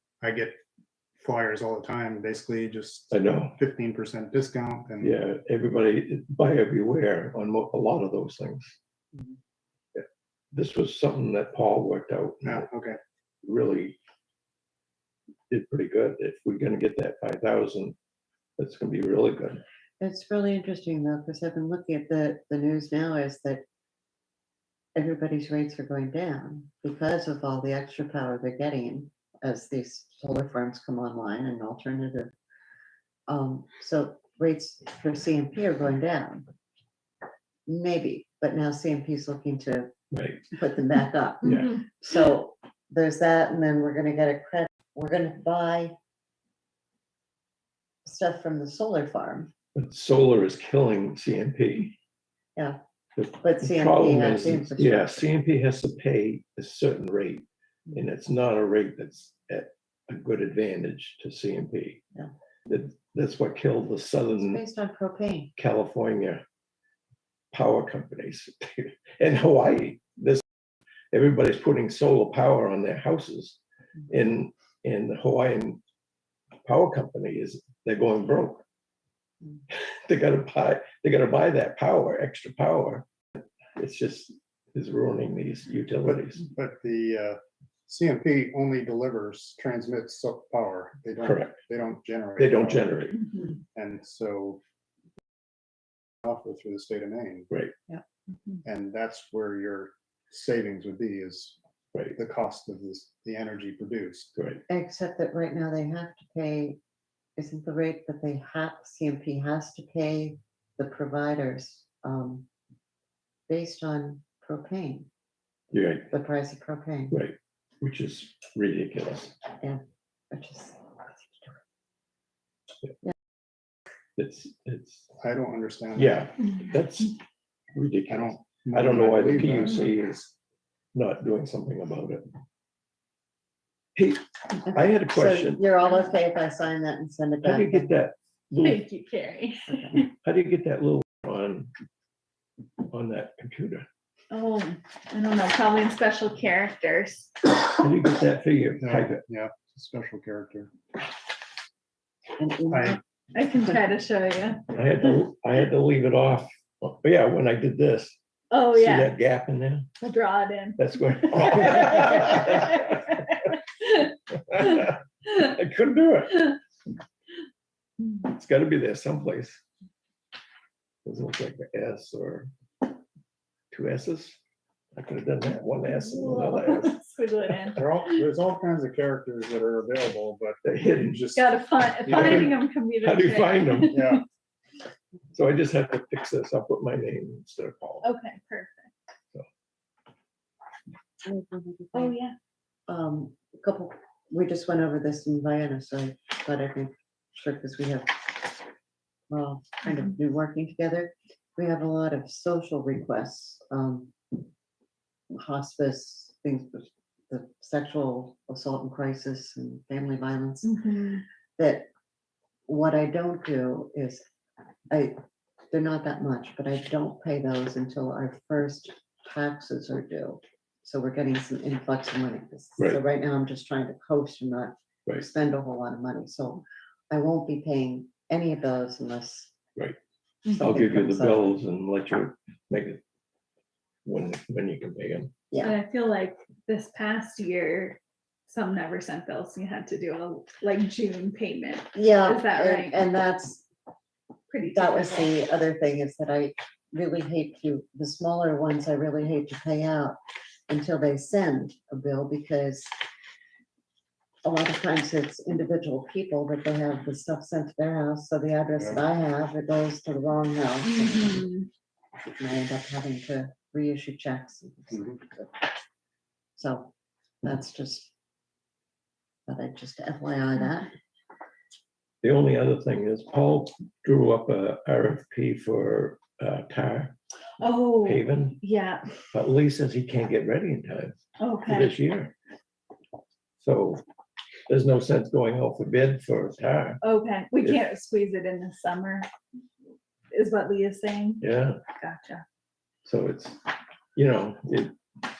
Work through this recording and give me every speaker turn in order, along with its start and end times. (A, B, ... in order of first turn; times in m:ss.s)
0:00.2-0:00.6 A
0:01.2-0:05.1 A
0:03.1-0:03.6 B
0:05.0-0:08.8 B
0:10.0-0:12.7 B
0:12.4-0:13.0 A
0:13.4-0:14.0 B
0:15.5-0:18.0 B
0:18.6-0:19.6 B
0:20.0-0:23.6 C
0:24.9-0:32.3 C
0:33.3-0:36.4 C
0:37.7-0:39.9 C
0:40.1-0:40.4 B
0:40.5-0:46.0 C
0:41.4-0:41.8 B
0:48.0-0:49.5 C
0:49.7-0:51.9 B
0:53.2-1:02.0 B
0:53.4-0:55.3 C
1:02.7-1:04.6 B
1:04.4-1:05.5 C
1:05.6-1:06.4 B
1:07.5-1:10.4 B
1:11.1-1:15.8 B
1:16.6-1:18.6 B
1:19.7-1:26.4 B
1:26.0-1:33.0 A
1:31.2-1:31.6 B
1:32.4-1:33.2 B
1:33.1-1:33.6 D
1:33.7-1:34.6 A
1:36.2-1:37.5 A
1:38.6-1:41.6 A
1:42.1-1:44.3 A
1:44.4-1:44.6 B
1:44.7-1:46.8 C
1:47.4-1:52.5 C
1:53.5-1:55.1 C
1:55.7-1:56.1 B
1:56.1-1:57.2 C
1:57.1-1:59.3 B
2:00.3-2:01.6 C
2:04.2-2:05.0 B
2:05.2-2:06.3 A
2:06.0-2:07.1 B
2:07.7-2:10.3 B
2:08.1-2:09.9 A
2:10.9-2:12.3 B
2:13.9-2:15.6 B
2:14.6-2:18.0 C
2:17.4-2:18.8 B
2:18.6-2:20.1 D
2:19.7-2:20.0 C
2:20.2-2:21.7 B
2:22.9-2:23.8 B
2:24.3-2:27.5 D
2:27.8-2:29.2 B
2:28.8-2:30.7 A
2:32.4-2:33.0 C
2:32.7-2:33.0 A
2:33.3-2:34.6 D
2:34.7-2:38.2 B
2:38.5-2:39.2 D
2:38.7-2:39.9 B
2:40.0-2:44.1 D
2:40.8-2:42.8 B
2:44.5-2:46.6 B
2:44.6-2:44.9 D
2:48.2-2:49.6 B
2:51.0-2:52.5 B
2:53.7-2:54.4 B
2:55.0-2:57.0 B
2:55.9-2:58.2 D
2:57.7-3:01.4 A
3:00.6-3:01.3 B
3:01.3-3:04.2 D
3:02.0-3:02.3 A
3:02.0-3:04.0 B
3:03.9-3:04.2 A
3:05.3-3:08.0 B
3:08.0-3:08.9 D
3:11.2-3:12.2 C
3:11.9-3:12.3 D
3:12.9-3:18.5 C
3:19.3-3:24.1 C
3:25.3-3:30.8 C
3:30.6-3:31.2 D
3:31.6-3:31.9 C
3:32.7-3:34.2 C
3:34.9-3:35.2 C
3:35.7-3:49.5 C
3:50.5-3:53.0 B
3:50.5-3:51.5 C
3:54.0-3:55.3 B
3:55.5-3:55.8 C
3:55.6-4:03.0 D
4:01.9-4:03.6 C
4:04.5-4:05.3 D
4:04.7-4:12.9 C
4:14.4-4:21.5 C
4:20.8-4:21.7 D
4:22.2-4:25.6 C
4:26.6-4:28.1 C
4:29.5-4:30.9 C
4:32.2-4:37.2 B
4:37.6-4:39.0 D
4:38.0-4:38.6 B
4:39.3-4:42.3 B
4:41.4-4:42.0 D
4:43.6-4:44.0 B
4:44.7-4:47.0 B
4:47.0-4:49.3 D
4:50.3-4:52.4 D
4:51.4-4:51.8 B
4:53.0-4:53.6 B
4:54.2-4:55.0 B